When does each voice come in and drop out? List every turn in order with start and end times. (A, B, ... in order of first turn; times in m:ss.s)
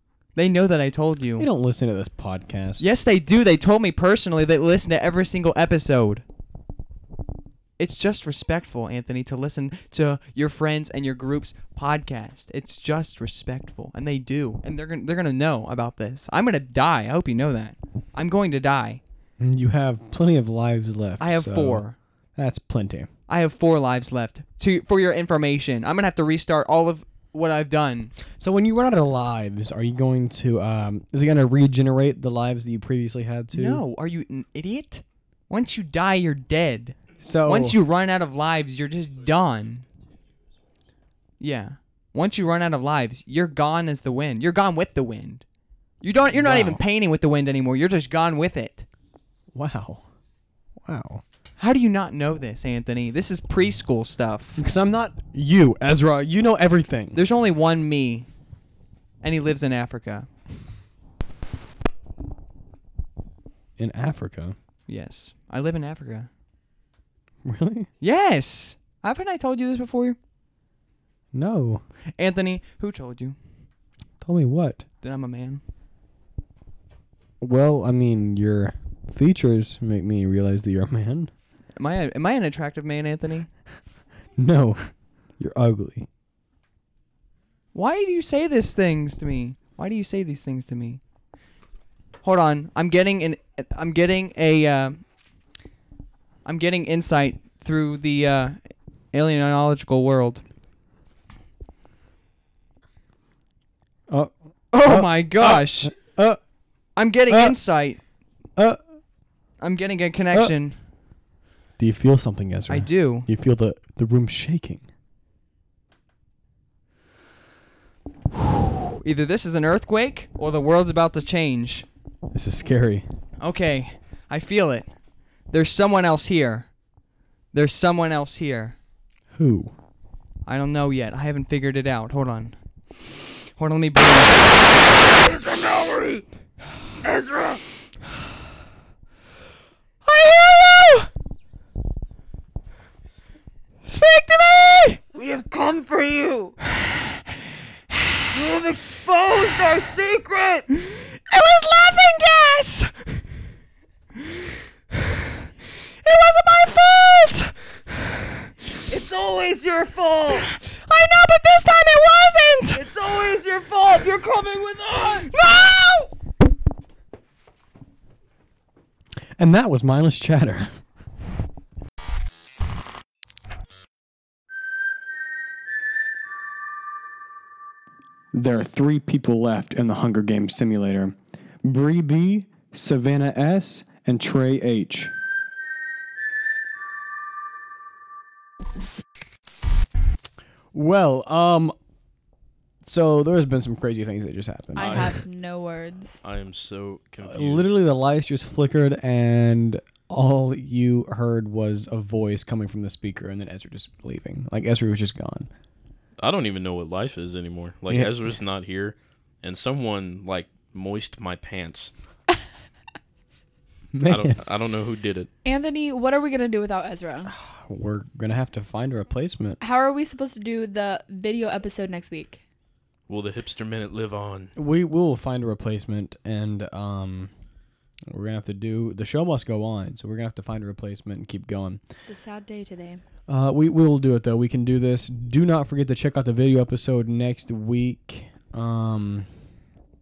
0:00.3-0:01.5 A
0:01.4-0:02.8 B
0:02.8-0:06.2 A
0:07.8-0:19.0 A
0:19.4-0:23.1 B
0:21.2-0:22.0 A
0:23.3-0:28.1 A
0:28.4-0:33.8 B
0:33.5-0:39.8 A
0:37.2-0:37.8 B
0:39.2-0:40.6 C
0:41.4-0:45.4 A
0:46.0-0:48.8 A
0:46.3-0:46.8 B
0:49.5-0:50.0 B
0:50.8-0:51.2 B
0:51.6-0:54.6 A
0:54.6-0:57.2 B
0:57.1-0:58.3 A
0:59.2-1:00.3 A
1:03.8-1:04.6 B
1:04.9-1:06.3 A
1:07.4-1:07.9 B
1:08.0-1:10.2 A
1:11.3-1:11.8 B
1:12.2-1:13.4 A
1:14.2-1:14.8 B
1:15.0-1:15.6 A
1:17.4-1:21.3 B
1:21.8-1:23.5 A
1:24.4-1:26.1 B
1:27.7-1:31.0 A
1:32.2-1:35.0 A
1:36.4-1:38.6 A
1:39.1-1:40.4 A
1:44.1-1:46.4 B
1:44.7-1:45.9 A
1:47.0-1:48.0 A
1:47.3-1:47.6 B
1:49.6-1:50.8 A
1:51.8-1:54.8 B
1:52.7-1:53.3 A
1:59.0-2:01.9 A
2:02.3-2:03.1 B
2:03.4-2:04.9 A
2:05.5-2:06.7 A
2:07.5-2:08.8 A
2:09.3-2:09.7 B
2:10.4-2:12.6 A
2:13.6-2:14.6 A
2:15.2-2:16.2 D
2:17.0-2:17.6 D
2:20.0-2:21.1 A
2:23.8-2:25.0 A
2:25.1-2:26.5 D
2:28.3-2:30.7 D
2:31.3-2:32.9 A
2:36.0-2:37.5 A
2:38.9-2:40.6 D
2:40.8-2:42.8 A
2:42.7-2:45.4 D
2:45.4-2:46.1 A
2:49.4-2:50.7 B
2:58.3-3:05.1 B
3:10.7-3:11.7 B
3:12.8-3:15.1 B
3:14.7-3:16.2 E
3:14.8-3:15.1 C
3:16.2-3:17.8 C
3:17.2-3:25.5 B
3:26.2-3:31.9 C
3:27.9-3:28.1 B
3:33.9-3:34.4 B
3:34.1-3:35.3 C
3:35.4-3:37.3 E
3:37.3-3:39.6 B
3:39.6-3:42.4 E
3:43.1-3:44.5 C
3:44.6-3:47.3 B
3:48.1-3:51.8 B
3:52.1-3:53.0 E
3:53.3-3:59.3 B